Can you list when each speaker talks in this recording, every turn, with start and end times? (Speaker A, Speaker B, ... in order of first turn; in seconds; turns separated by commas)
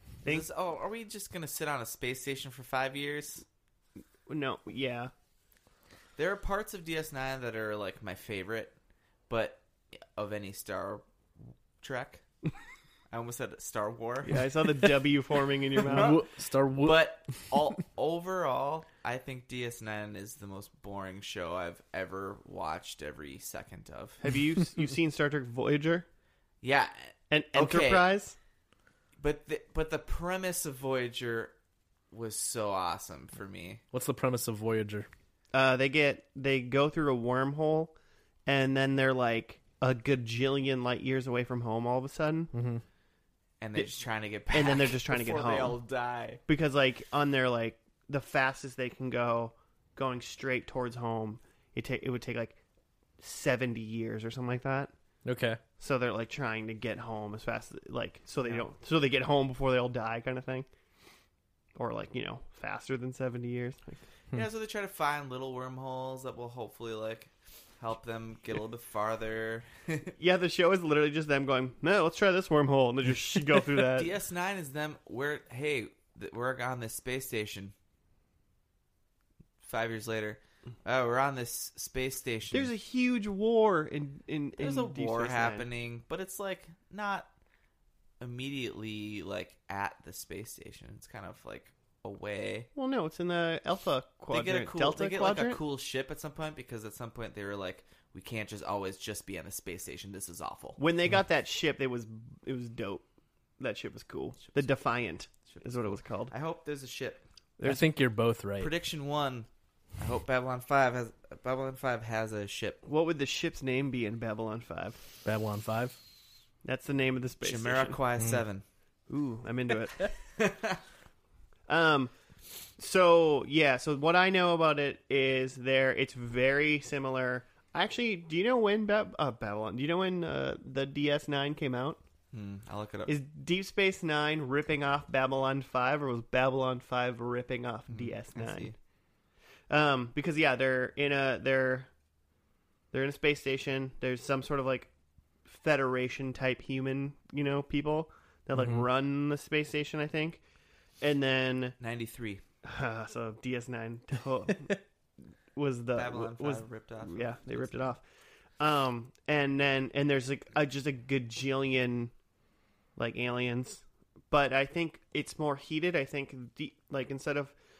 Speaker A: 0.2-3.4, Speaker B: 4.3-5.1, Speaker A: 6.2-8.7, Speaker A: 9.3-12.2, Speaker A: 13.1-14.5, Speaker B: 14.2-16.2, Speaker A: 15.8-16.2, Speaker C: 15.8-17.6, Speaker A: 16.8-24.2, Speaker B: 24.2-26.1, Speaker A: 26.6-28.1, Speaker B: 27.3-28.3, Speaker A: 29.2-31.5, Speaker A: 32.1-33.8, Speaker C: 33.9-35.1, Speaker B: 35.5-37.9, Speaker B: 38.5-42.5, Speaker C: 42.5-42.8, Speaker A: 43.6-46.4, Speaker B: 44.5-45.8, Speaker B: 46.5-52.6, Speaker B: 53.2-54.9, Speaker C: 55.2-55.6, Speaker B: 55.8-60.7, Speaker B: 61.8-64.0, Speaker A: 64.3-70.1, Speaker B: 70.2-74.1, Speaker A: 73.7-77.7, Speaker A: 79.6-82.7, Speaker B: 82.5-85.7, Speaker A: 84.6-87.3, Speaker A: 88.2-92.7, Speaker B: 92.8-95.6, Speaker A: 94.3-100.8, Speaker B: 100.8-103.0, Speaker B: 103.6-106.3, Speaker A: 104.4-104.7, Speaker A: 105.5-107.2, Speaker B: 107.6-107.9, Speaker C: 107.6-108.7, Speaker A: 108.6-112.8, Speaker B: 112.8-115.0, Speaker C: 115.2-116.0, Speaker B: 116.6-118.0, Speaker A: 117.4-118.6, Speaker B: 119.1-120.1, Speaker A: 120.4-120.8, Speaker B: 121.7-122.1, Speaker B: 122.8-132.0, Speaker A: 132.3-133.2, Speaker B: 133.1-138.7, Speaker A: 137.9-138.7, Speaker B: 139.7-141.9, Speaker B: 142.9-144.9, Speaker B: 145.4-150.4, Speaker C: 148.5-148.8, Speaker B: 151.0-151.8, Speaker A: 151.8-152.4, Speaker B: 152.6-154.8, Speaker B: 155.5-158.0, Speaker A: 155.9-157.7, Speaker B: 158.6-162.1, Speaker B: 163.0-167.5